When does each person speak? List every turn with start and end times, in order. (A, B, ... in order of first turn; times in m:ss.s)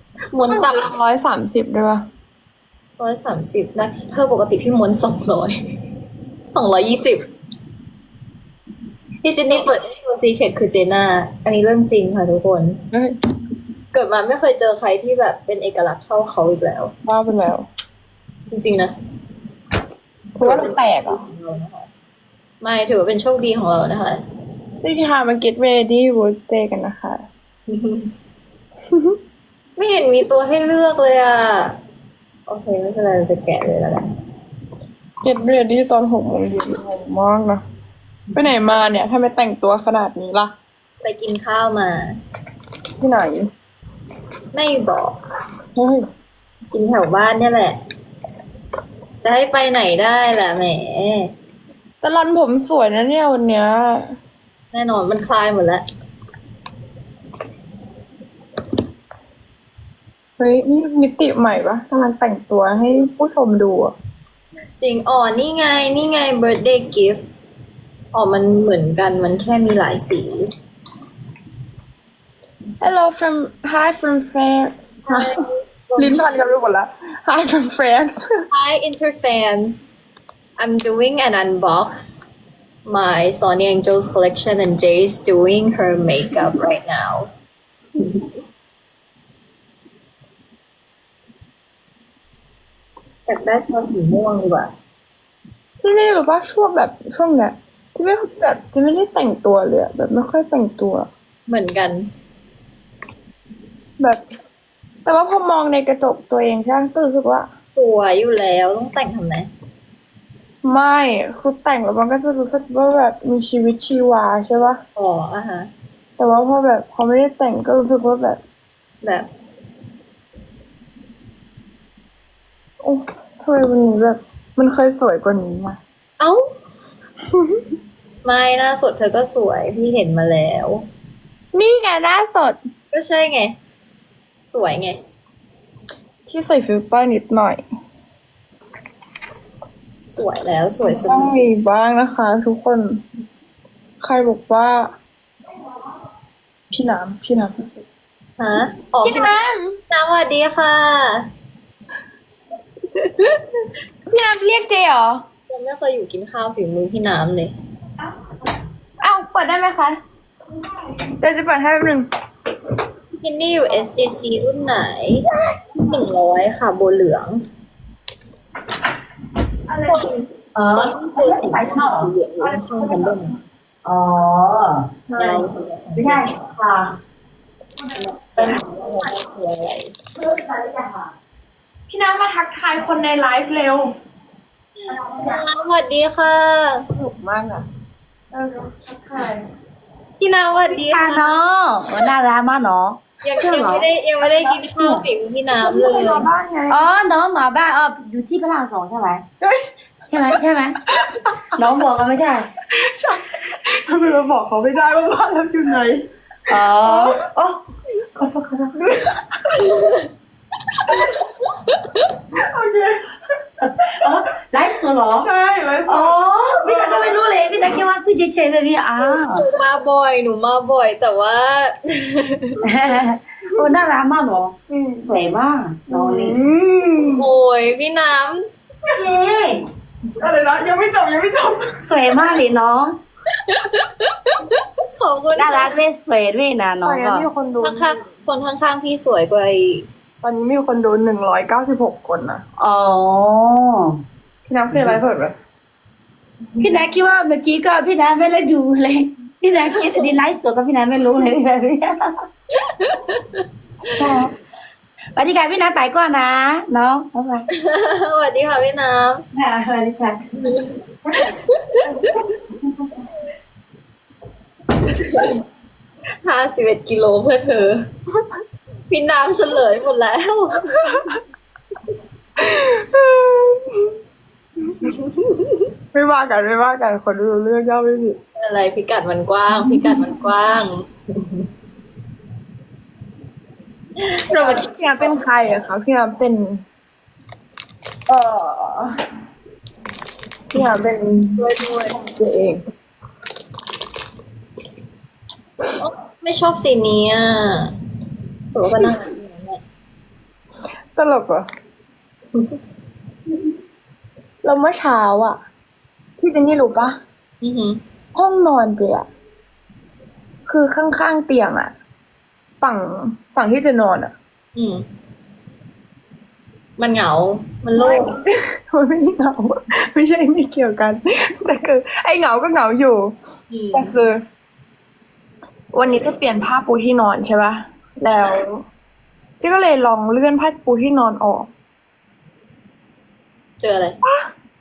0:00.3-0:00.8 A
0:00.5-0:02.0 B
0:03.0-0:05.5 A
0:06.5-0:07.2 A
0:09.2-0:12.8 A
0:12.9-0:13.2 B
0:13.9-0:16.9 A
0:17.0-0:17.7 B
0:18.5-0:18.9 A
0:20.4-0:21.2 B
0:20.4-0:21.9 A
0:22.6-0:24.2 A
0:24.8-0:27.2 B
0:27.7-0:28.1 A
0:28.9-0:29.2 B
0:29.8-0:31.8 A
0:32.5-0:34.0 A
0:35.2-0:37.6 B
0:38.4-0:40.5 B
0:41.0-0:42.1 A
0:43.0-0:43.5 B
0:44.5-0:45.1 A
0:45.8-0:46.0 B
0:46.7-0:47.8 A
0:49.2-0:51.3 A
0:52.0-0:54.2 B
0:54.7-0:55.8 A
1:00.4-1:03.9 B
1:04.8-1:07.2 A
1:08.1-1:10.5 A
1:12.8-1:15.4 B
1:15.1-1:16.2 A
1:16.0-1:18.2 B
1:18.5-1:19.8 A
1:20.6-1:22.3 A
1:22.8-1:27.3 A
1:33.3-1:34.7 A
1:35.8-1:41.1 B
1:41.5-1:42.1 A
1:45.0-1:47.5 B
1:47.8-1:49.5 A
1:50.6-1:54.8 B
1:55.0-1:55.7 A
1:56.2-1:58.4 B
2:02.8-2:05.8 B
2:08.2-2:10.8 A
2:11.5-2:12.6 B
2:12.9-2:13.5 A
2:14.5-2:15.0 A
2:16.3-2:17.6 B
2:20.1-2:21.3 A
2:20.9-2:23.0 B
2:24.0-2:24.9 B
2:26.7-2:27.8 B
2:28.4-2:29.3 A
2:29.0-2:29.8 B
2:29.9-2:31.2 A
2:34.1-2:35.2 B
2:35.5-2:37.5 A
2:39.0-2:40.0 B
2:41.1-2:42.1 B
2:43.2-2:45.2 A
2:45.8-2:47.4 A
2:49.7-2:50.0 B
2:49.9-2:53.3 A
2:50.5-2:52.1 C
2:52.6-2:53.0 B
2:53.8-2:54.8 C
2:55.1-2:55.4 B
2:55.2-2:56.3 A
2:56.0-2:57.0 C
2:58.0-2:59.9 A
2:58.4-2:58.9 C
3:00.2-3:01.1 C
3:01.9-3:03.9 B
3:05.1-3:06.8 A
3:06.9-3:07.6 B
3:08.3-3:09.4 B
3:10.2-3:11.3 A
3:10.8-3:13.8 C
3:13.2-3:16.2 A
3:14.7-3:15.0 C
3:15.6-3:16.8 B
3:16.7-3:19.2 C
3:19.4-3:19.7 B
3:20.1-3:20.8 C
3:21.5-3:22.5 C
3:22.8-3:26.0 B
3:26.5-3:27.6 C
3:26.8-3:27.2 B
3:28.2-3:28.7 C
3:28.8-3:29.7 B
3:29.6-3:30.1 A
3:31.0-3:32.2 A
3:32.3-3:33.0 B
3:33.9-3:35.3 C
3:35.1-3:37.2 B
3:35.9-3:39.5 C
3:39.0-3:42.6 A
3:42.6-3:46.4 C
3:44.7-3:45.1 B
3:45.9-3:47.2 B
3:47.1-3:48.4 A
3:48.9-3:49.6 C
3:50.2-3:51.8 B
3:51.8-3:53.0 C
3:53.3-3:55.7 A
3:55.3-3:57.3 C
3:56.8-3:57.9 B
3:57.6-3:59.8 A
4:00.2-4:02.4 B
4:02.6-4:04.0 C
4:04.4-4:05.3 B
4:04.7-4:05.0 C
4:06.6-4:12.1 C
4:09.7-4:10.1 A
4:12.6-4:13.4 A
4:13.9-4:14.3 C
4:15.2-4:17.5 C
4:17.6-4:19.2 A
4:19.3-4:20.2 C
4:20.4-4:22.3 A
4:22.0-4:22.7 C
4:24.9-4:25.4 A
4:26.2-4:27.8 A
4:28.9-4:31.0 A
4:32.4-4:34.0 B
4:34.8-4:35.6 A
4:35.9-4:38.2 B
4:38.4-4:41.5 A
4:39.6-4:40.1 B
4:44.0-4:45.1 A
4:44.3-4:46.6 B
4:48.1-4:48.9 B
4:50.5-4:51.4 B
4:51.4-4:52.0 A
4:52.0-4:52.6 B
4:55.8-4:57.7 A
4:58.5-4:59.6 A
5:00.9-5:01.5 B
5:04.4-5:05.4 B
5:06.2-5:07.0 B
5:07.4-5:07.8 A
5:08.1-5:09.1 B
5:10.4-5:11.7 B
5:12.6-5:14.1 B
5:14.5-5:14.8 A
5:16.8-5:18.1 A
5:17.8-5:23.1 B
5:23.5-5:23.9 A
5:23.7-5:24.2 B
5:25.7-5:28.6 B
5:29.4-5:31.5 B
5:33.6-5:34.0 A